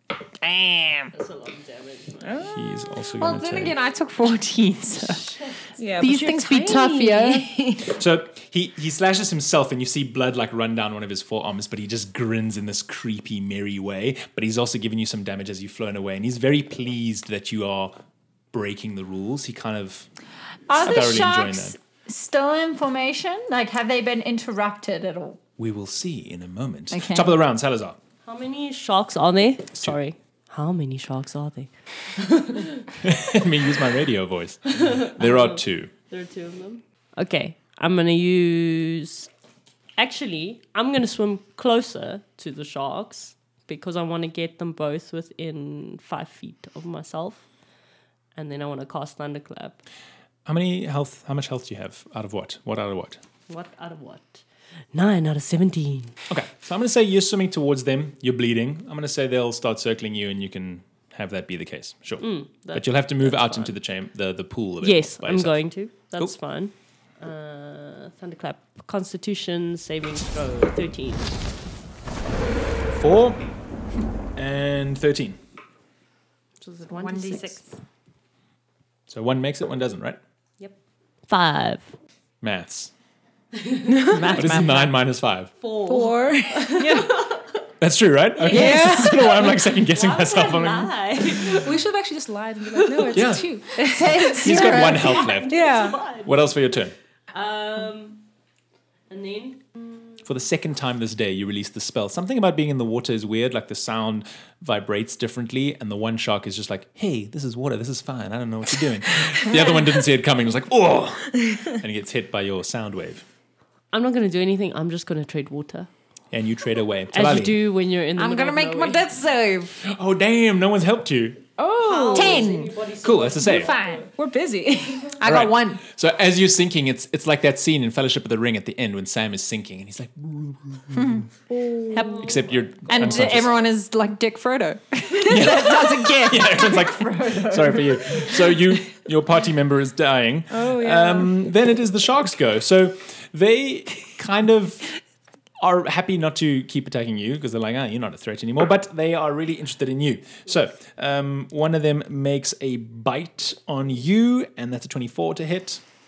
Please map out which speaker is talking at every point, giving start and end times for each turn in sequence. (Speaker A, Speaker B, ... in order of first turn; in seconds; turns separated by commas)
Speaker A: 0.4-1.1, Speaker B: 1.1-2.4, Speaker C: 2.2-2.9, Speaker D: 2.4-3.8, Speaker A: 3.2-5.4, Speaker C: 5.8-7.9, Speaker A: 6.0-7.5, Speaker D: 7.8-17.9, Speaker D: 18.5-20.1, Speaker E: 20.7-25.4, Speaker D: 20.7-21.8, Speaker D: 25.6-28.0, Speaker E: 26.9-27.4, Speaker B: 28.2-32.8, Speaker D: 33.0-35.9, Speaker B: 34.7-39.3, Speaker B: 40.0-47.5, Speaker B: 48.3-49.8, Speaker D: 50.5-53.2, Speaker B: 53.5-56.2, Speaker D: 56.3-66.3, Speaker B: 62.2-63.8, Speaker B: 64.8-71.4, Speaker D: 72.9-73.4, Speaker D: 74.3-75.4, Speaker B: 76.6-77.6, Speaker A: 76.9-77.6, Speaker D: 79.1-80.2, Speaker B: 81.3-81.9, Speaker D: 82.4-82.9, Speaker B: 83.5-84.7, Speaker C: 83.9-84.4, Speaker A: 84.1-84.9, Speaker D: 84.3-85.5, Speaker B: 85.6-87.6, Speaker C: 85.8-87.1, Speaker A: 86.8-87.1, Speaker D: 87.8-91.4, Speaker B: 88.4-91.8, Speaker A: 88.5-89.4, Speaker C: 88.6-88.8, Speaker C: 91.5-96.0, Speaker B: 92.8-93.2, Speaker D: 93.1-93.6, Speaker A: 93.8-95.3, Speaker D: 94.4-96.9, Speaker B: 94.7-96.4, Speaker B: 97.3-98.2, Speaker B: 99.1-99.7, Speaker D: 100.2-113.2, Speaker B: 113.9-115.9, Speaker D: 116.3-117.6, Speaker B: 117.1-119.0, Speaker A: 118.2-119.8, Speaker D: 119.8-121.4, Speaker C: 121.6-122.5, Speaker B: 121.8-124.1, Speaker A: 122.1-122.8, Speaker D: 123.0-123.7, Speaker E: 123.5-124.0, Speaker C: 124.2-125.2, Speaker A: 125.2-125.8, Speaker D: 125.2-131.2, Speaker A: 130.9-131.2, Speaker C: 131.5-132.2, Speaker A: 131.9-132.2, Speaker B: 131.9-133.3, Speaker D: 132.1-133.6, Speaker A: 132.9-136.7, Speaker D: 135.2-144.9, Speaker E: 136.4-138.5, Speaker C: 140.5-141.3, Speaker D: 145.6-155.8